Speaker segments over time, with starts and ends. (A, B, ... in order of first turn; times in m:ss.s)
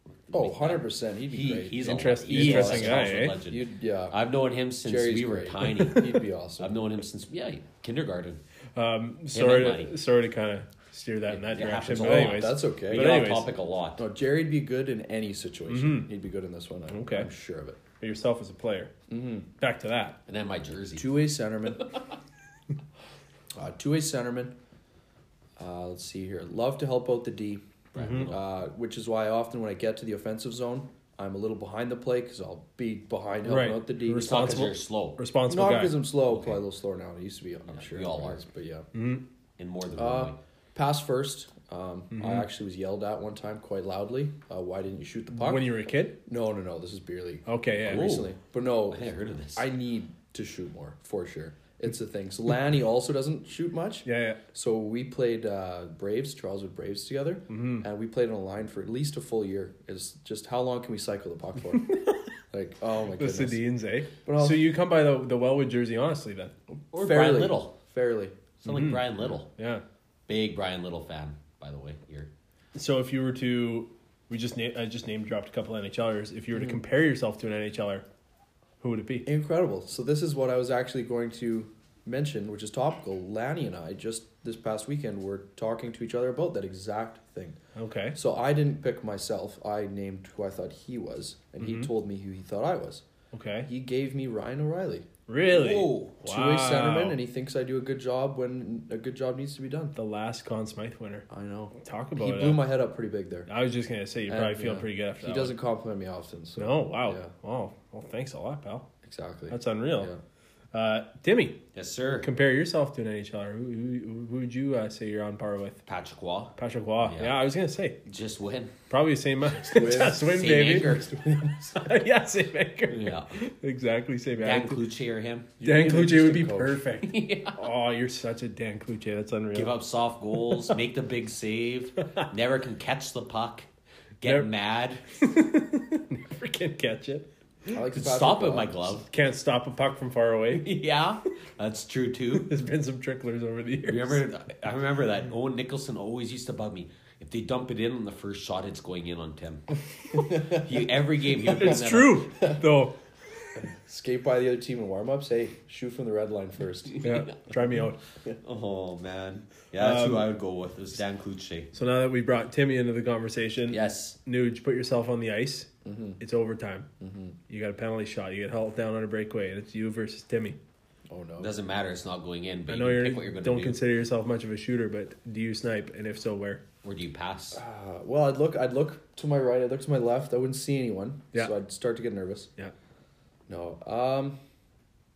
0:00.3-0:08.4 A
0:00.3-0:04.2 B
0:01.8-0:03.4 C
0:04.8-0:06.7 B
0:08.8-0:13.5 C
0:09.3-0:09.9 A
0:11.3-0:14.0 A
0:11.9-0:13.3 B
0:14.0-0:17.8 B
0:15.7-0:16.1 C
0:16.9-0:17.3 C
0:18.0-0:18.9 C
0:19.1-0:19.5 B
0:19.6-0:20.2 C
0:20.3-0:21.2 A
0:21.0-0:21.9 B
0:21.8-0:22.1 A
0:23.6-0:24.5 B
0:25.6-0:34.5 B
0:27.9-0:28.4 A
0:28.0-0:28.3 C
0:33.4-0:36.0 C
0:34.2-0:35.2 A
0:35.5-0:38.9 B
0:36.3-0:36.6 A
0:37.7-0:38.4 A
0:38.9-0:39.2 C
0:39.6-0:40.4 A
0:40.0-0:45.7 B
0:42.1-0:42.5 C
0:45.3-0:46.2 C
0:46.3-1:02.0 B
0:47.5-0:48.1 C
0:47.8-0:48.3 A
0:48.9-0:49.7 A
0:54.0-0:54.4 C
0:57.5-0:57.9 C
1:01.8-1:02.2 C
1:02.5-1:03.6 B
1:03.2-1:06.5 C
1:04.2-1:04.7 B
1:06.9-1:07.8 A
1:06.9-1:08.4 B
1:08.6-1:09.5 A
1:08.7-1:09.8 C
1:10.3-1:12.3 A
1:12.8-1:18.0 C
1:18.8-1:19.3 C
1:19.2-1:27.6 B
1:27.8-1:28.2 C
1:28.2-1:33.0 B
1:31.6-1:31.9 C
1:33.3-1:33.7 C
1:33.7-1:35.1 B
1:35.3-1:37.2 C
1:35.5-1:36.2 A
1:36.2-1:40.0 B
1:40.0-1:42.7 C
1:41.3-1:43.5 B
1:43.5-1:45.6 C
1:44.3-1:47.3 B
1:46.6-1:48.9 C
1:49.0-1:50.2 B
1:49.5-1:50.1 C
1:50.7-1:51.6 C
1:51.7-1:52.3 A
1:52.2-1:55.8 C
1:55.9-1:57.4 A
1:56.6-1:58.0 C
1:58.0-1:58.7 A
1:58.9-2:01.0 C
1:59.7-2:00.3 B
1:59.7-2:01.7 A
2:01.2-2:01.6 B
2:01.7-2:04.8 C
2:02.9-2:03.3 A
2:04.4-2:05.5 A
2:05.6-2:06.8 B
2:05.6-2:09.7 C
2:07.0-2:07.6 A
2:09.5-2:13.7 A
2:14.2-2:15.0 A
2:15.2-2:17.3 C
2:17.7-2:18.8 B
2:17.9-2:19.1 A
2:19.1-2:20.7 C
2:20.5-2:22.5 A
2:22.3-2:24.2 C
2:23.9-2:32.3 A
2:30.2-2:30.6 B
2:31.4-2:33.0 C
2:33.8-2:37.0 B
2:36.9-2:37.3 A
2:37.0-2:38.0 C
2:38.4-2:41.7 A
2:39.8-2:40.3 C
2:41.7-2:46.9 C
2:43.7-2:44.2 A
2:45.8-2:46.2 B
2:47.0-2:47.4 B
2:47.5-2:50.6 C
2:51.1-2:51.5 B
2:51.4-2:53.8 A
2:52.7-2:56.6 C
2:56.8-2:57.6 A
2:57.5-3:02.5 B
3:03.5-3:04.4 B